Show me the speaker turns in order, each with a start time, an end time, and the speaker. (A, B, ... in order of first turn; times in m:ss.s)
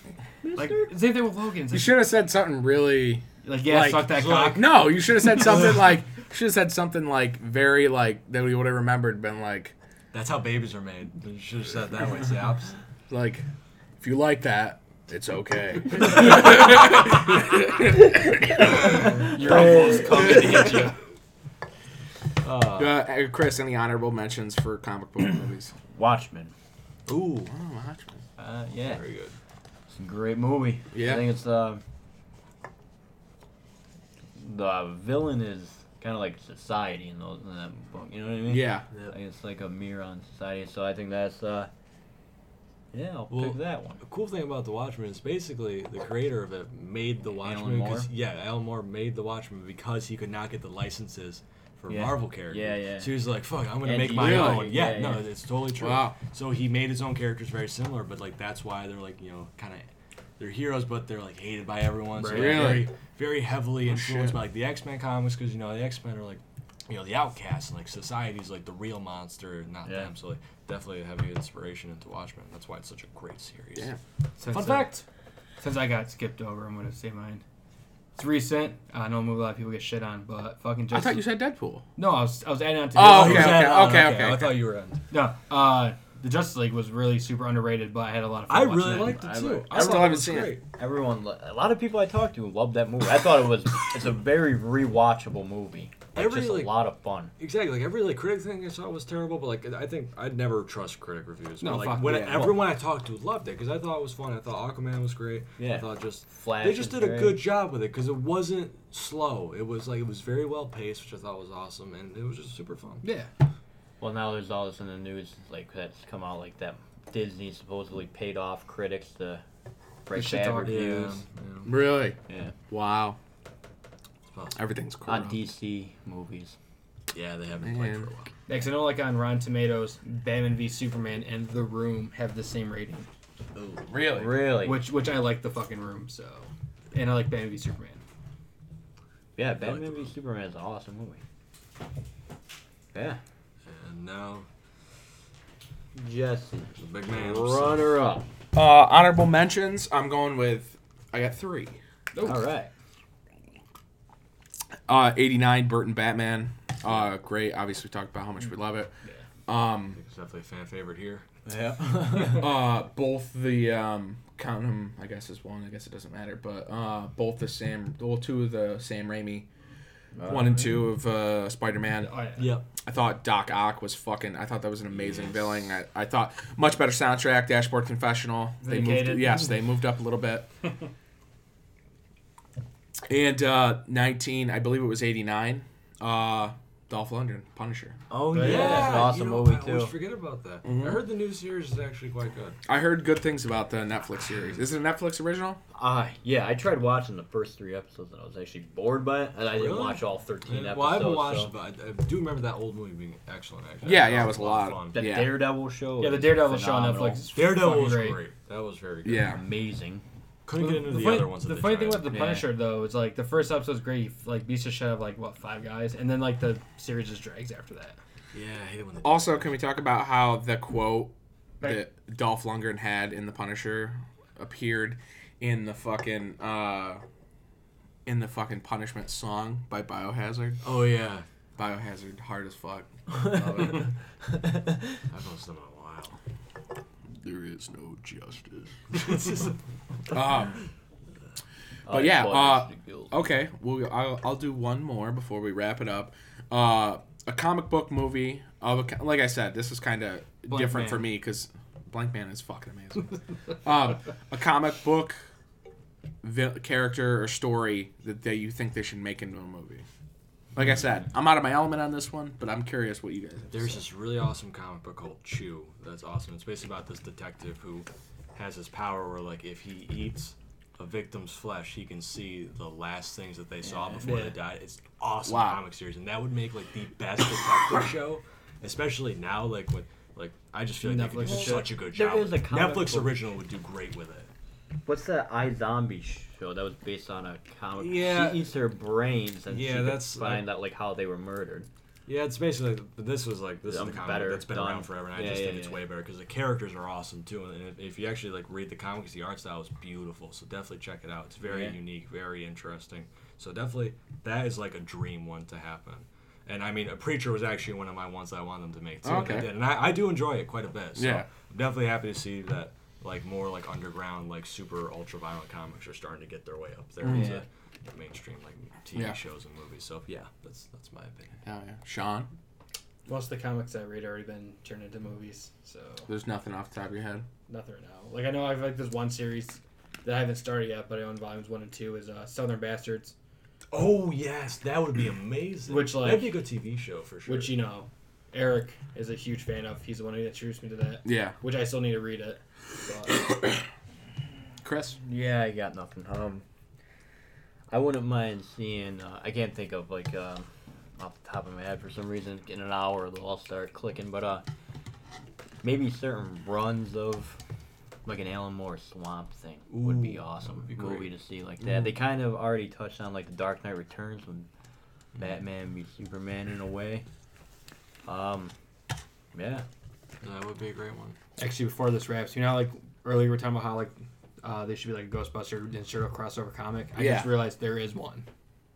0:00.4-0:00.9 A
0:00.6-0:02.0 B
0:01.7-0:09.7 C
0:03.4-0:04.7 B
0:04.1-0:04.7 D
0:05.4-0:05.8 D
0:10.1-0:12.7 D
0:13.1-0:13.4 C
0:14.0-0:20.9 C
0:19.0-0:20.9 B
0:19.3-0:20.9 A
0:22.4-0:22.9 D
0:22.8-0:25.7 C
0:25.9-0:26.5 A
0:27.1-0:27.5 D
0:27.5-0:28.2 C
0:28.4-0:29.0 A
0:28.8-0:29.4 D
0:29.9-0:31.8 A
0:30.9-0:31.2 C
0:34.4-0:41.7 A
0:38.5-0:38.8 C
0:42.9-0:44.0 A
0:43.3-0:59.8 D
0:47.4-0:48.1 A
0:51.9-0:53.2 A
0:53.8-0:55.2 A
0:54.1-0:54.7 C
0:55.8-0:56.2 C
1:00.4-1:13.9 D
1:02.2-1:02.8 B
1:02.3-1:02.9 C
1:03.8-1:04.4 C
1:09.8-1:10.1 A
1:14.4-1:15.0 B
1:14.4-1:15.0 D
1:15.6-1:17.4 B
1:18.1-1:21.2 B
1:20.9-1:21.8 C
1:22.0-1:23.7 B
1:22.9-1:24.5 C
1:23.0-1:25.0 D
1:25.1-1:29.2 B
1:28.5-1:30.6 D
1:28.9-1:30.0 A
1:29.7-1:30.6 C
1:30.8-1:37.3 A
1:36.1-1:36.8 D
1:37.4-1:53.0 D
1:41.6-1:42.5 B
1:42.0-1:42.5 C
1:45.6-1:47.4 A
1:53.0-1:53.3 B
1:54.0-1:59.4 A
2:00.0-2:01.2 A
2:00.1-2:01.1 B
2:00.6-2:01.7 D
2:01.6-2:02.2 C
2:02.3-2:02.5 A
2:02.7-2:03.2 C
2:04.3-2:04.6 D
2:04.5-2:05.4 C
2:05.0-2:06.6 A
2:07.1-2:08.3 D
2:07.6-2:08.1 C
2:08.5-2:13.1 B
2:13.8-2:14.3 C
2:14.0-2:14.8 A
2:14.6-2:18.0 B
2:19.4-2:21.2 A
2:19.6-2:20.1 D
2:22.9-2:23.2 A
2:23.6-2:24.4 D
2:25.9-2:28.3 A
2:26.8-2:27.9 D
2:28.5-2:31.8 C
2:32.1-2:32.5 B
2:32.2-2:32.7 A
2:34.9-2:38.9 C
2:39.5-2:40.0 C
2:39.9-2:41.2 D
2:41.4-2:42.5 A
2:42.1-2:49.5 C
2:50.2-2:50.7 A
2:50.2-2:52.1 C
2:52.0-2:52.5 B
2:52.4-2:52.6 D
2:52.8-3:00.5 C
2:54.9-2:55.8 D
2:58.6-2:59.5 B
3:03.1-3:08.0 C
3:08.1-3:09.9 A
3:08.3-3:09.1 B
3:08.3-3:12.6 D
3:10.6-3:11.0 C
3:12.6-3:15.6 C
3:15.7-3:21.5 A
3:19.5-3:25.0 D
3:23.8-3:25.3 C
3:24.9-3:27.2 A
3:26.0-3:28.2 B
3:27.3-3:29.3 D
3:29.0-3:29.4 C
3:29.2-3:30.0 A
3:30.4-3:32.4 D
3:30.6-3:38.0 B
3:32.1-3:32.5 A
3:38.3-3:39.6 D
3:39.0-3:47.0 C
3:48.0-3:50.6 C
3:50.6-3:51.2 D
3:51.6-3:53.9 C
3:53.1-3:53.9 D
3:55.0-3:56.2 D
3:57.2-3:58.6 C
3:58.9-3:59.6 D
4:00.1-4:00.6 C
4:01.8-4:03.2 A
4:01.9-4:15.2 C
4:10.5-4:11.1 B
4:16.2-4:19.8 C
4:20.5-4:23.8 C
4:23.5-4:44.3 D
4:33.6-4:34.1 A
4:34.0-4:34.3 B
4:35.2-4:35.6 C
4:40.8-4:41.7 B
4:41.3-4:43.2 A
4:44.8-4:51.7 A
4:47.8-4:48.5 D
4:49.5-4:50.5 D
4:52.1-5:21.3 D
4:53.6-4:55.8 A
5:01.5-5:01.8 A
5:09.0-5:09.5 C
5:11.0-5:11.3 C
5:17.0-5:17.4 C
5:17.1-5:17.4 A
5:21.4-5:22.3 C
5:23.0-5:26.1 B
5:26.1-5:27.2 C
5:27.5-5:33.1 B
5:33.7-5:37.5 D
5:35.7-5:36.4 B
5:37.2-5:43.2 B
5:41.0-5:41.4 C
5:44.6-5:45.0 C
5:45.0-5:46.4 A
5:47.7-5:54.4 A
5:55.6-5:57.4 A
5:58.0-6:04.5 A
5:59.7-6:01.1 D
6:05.2-6:07.0 A
6:08.0-6:08.5 A
6:09.3-6:09.6 A
6:10.2-6:11.2 D
6:11.4-6:18.2 B
6:16.9-6:17.4 C